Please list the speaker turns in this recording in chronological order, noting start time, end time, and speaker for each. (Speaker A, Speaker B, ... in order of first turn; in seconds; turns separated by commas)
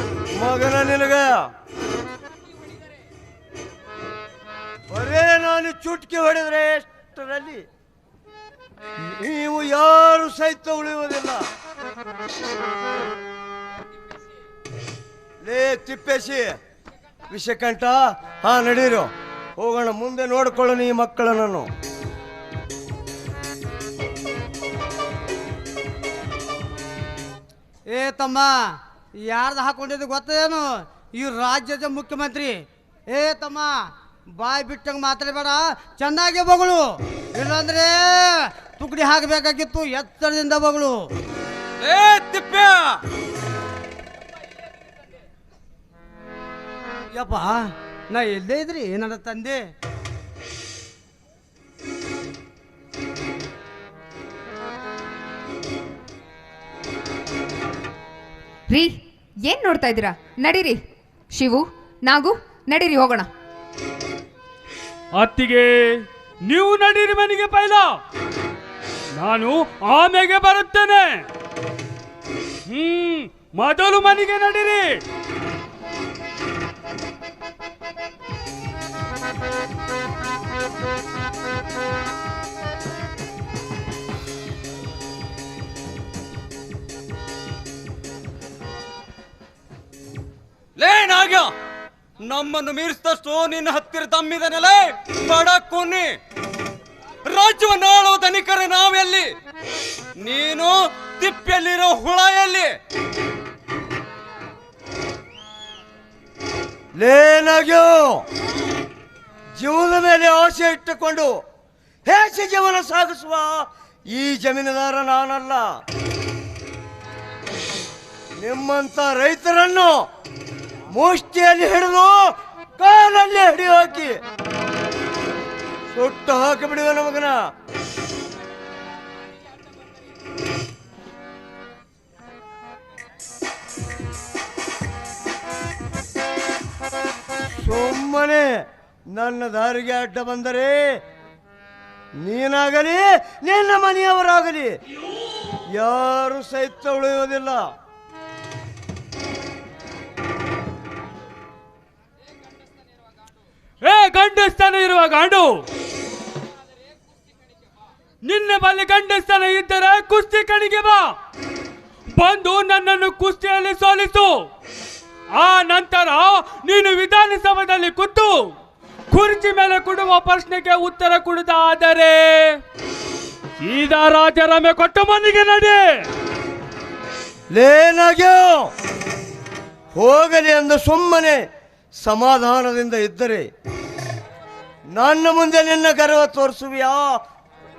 Speaker A: 0.4-1.5, Speaker A: 4.9-7.7, Speaker A: 9.0-11.4, Speaker A: 15.4-16.6, Speaker A: 17.3-21.7, Speaker B: 27.9-41.1, Speaker C: 41.8-43.0, Speaker B: 47.1-49.7, Speaker D: 58.7-63.3, Speaker E: 65.2-67.9, Speaker E: 69.2-71.2, Speaker E: 72.7-74.9, Speaker C: 90.8-91.5, Speaker C: 92.2-96.1, Speaker C: 97.2-99.3, Speaker C: 100.2-102.7, Speaker A: 107.0-108.2, Speaker A: 109.6-111.4, Speaker A: 112.0-115.7, Speaker A: 118.4-120.1, Speaker A: 120.9-124.2, Speaker A: 125.9-127.4, Speaker A: 137.6-141.0, Speaker A: 142.2-144.8, Speaker A: 145.7-147.7, Speaker E: 153.8-155.5, Speaker E: 158.2-161.1, Speaker E: 162.1-164.3, Speaker E: 165.3-168.3, Speaker E: 169.1-172.6, Speaker E: 173.6-175.8, Speaker A: 177.5-178.7, Speaker A: 179.9-181.4, Speaker A: 182.0-183.5, Speaker A: 184.9-187.2